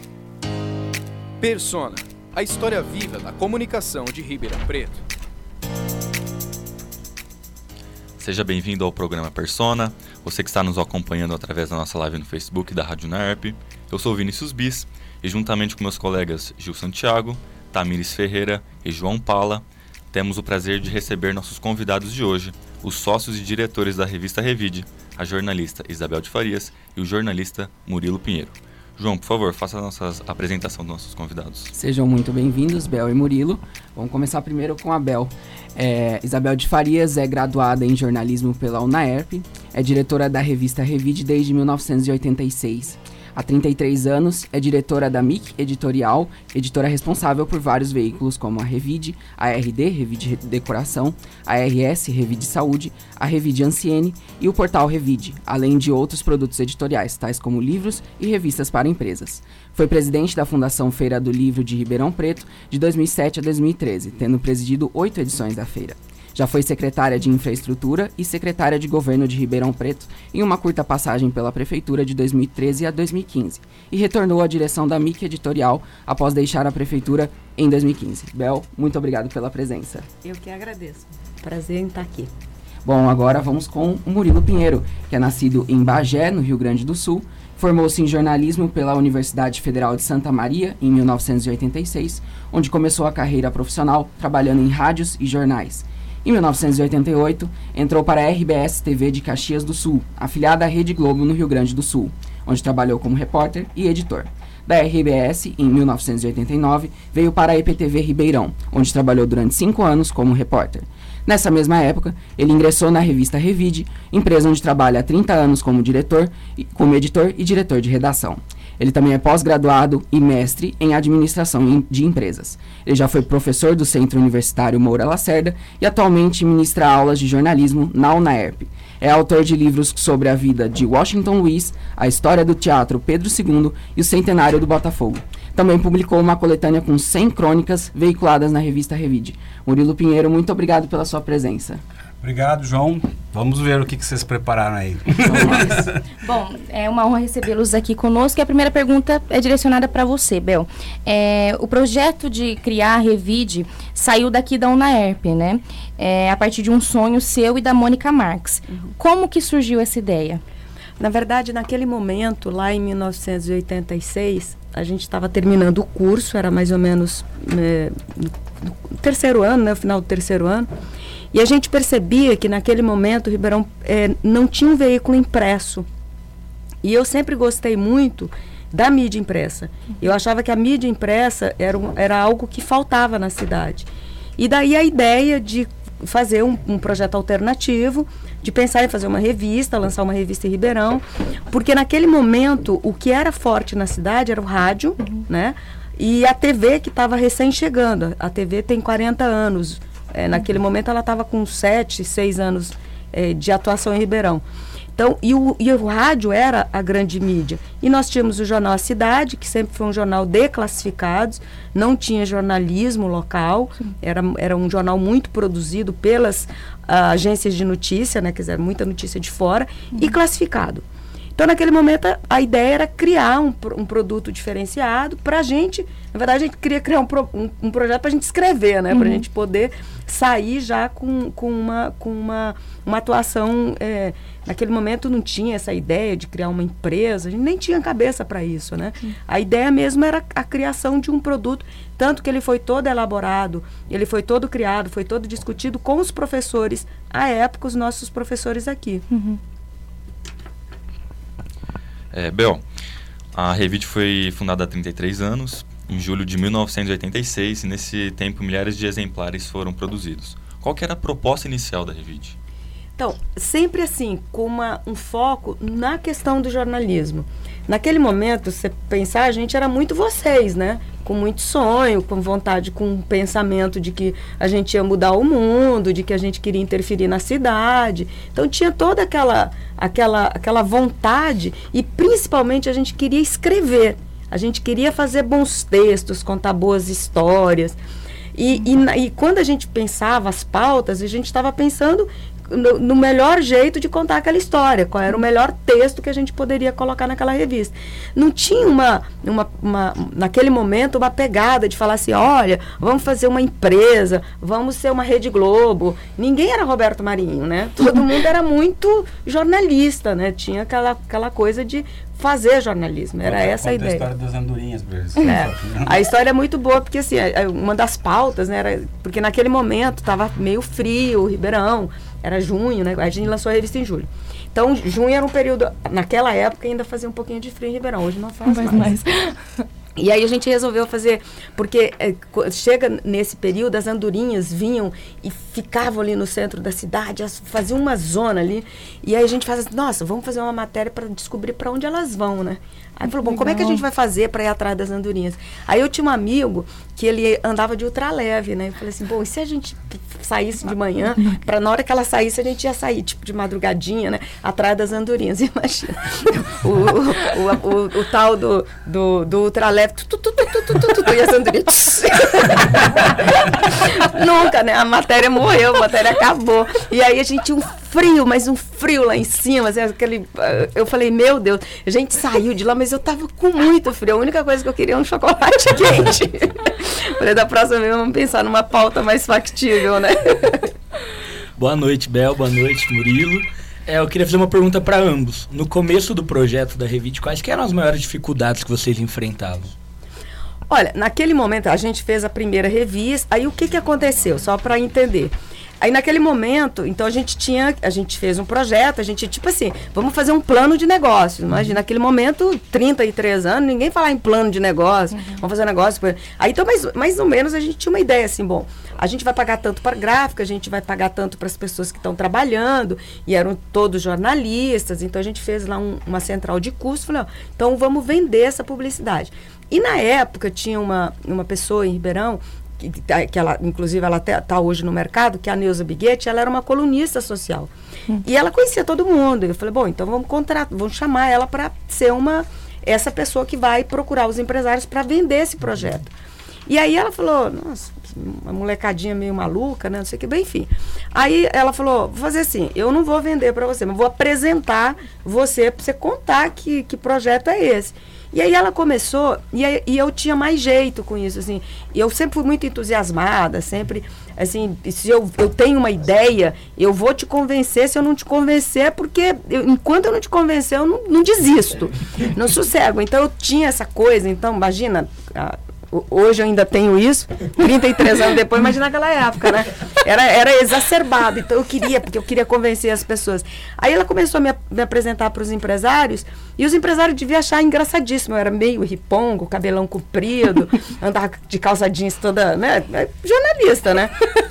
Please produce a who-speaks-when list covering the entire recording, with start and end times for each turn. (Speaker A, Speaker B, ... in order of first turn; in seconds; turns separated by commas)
Speaker A: 1.4-5.0, Speaker B: 8.2-31.7, Speaker C: 31.7-80.1, Speaker D: 80.2-82.3, Speaker C: 82.8-141.8, Speaker E: 142.2-146.0, Speaker C: 145.2-145.9, Speaker F: 146.2-160.4, Speaker D: 161.0-170.7, Speaker D: 171.3-175.9, Speaker D: 176.8-204.4, Speaker D: 205.0-220.8, Speaker D: 221.4-249.1, Speaker F: 228.9-229.2, Speaker F: 249.1-249.4, Speaker B: 252.1-252.6, Speaker B: 253.3-262.4, Speaker D: 263.0-287.8, Speaker D: 288.4-314.1, Speaker E: 313.2-316.0, Speaker D: 315.2-328.9, Speaker F: 328.4-329.6, Speaker D: 330.0-380.7, Speaker F: 343.3-343.8, Speaker G: 381.6-389.7, Speaker D: 390.7-427.7, Speaker F: 405.1-405.4, Speaker D: 428.2-436.1, Speaker D: 436.7-484.2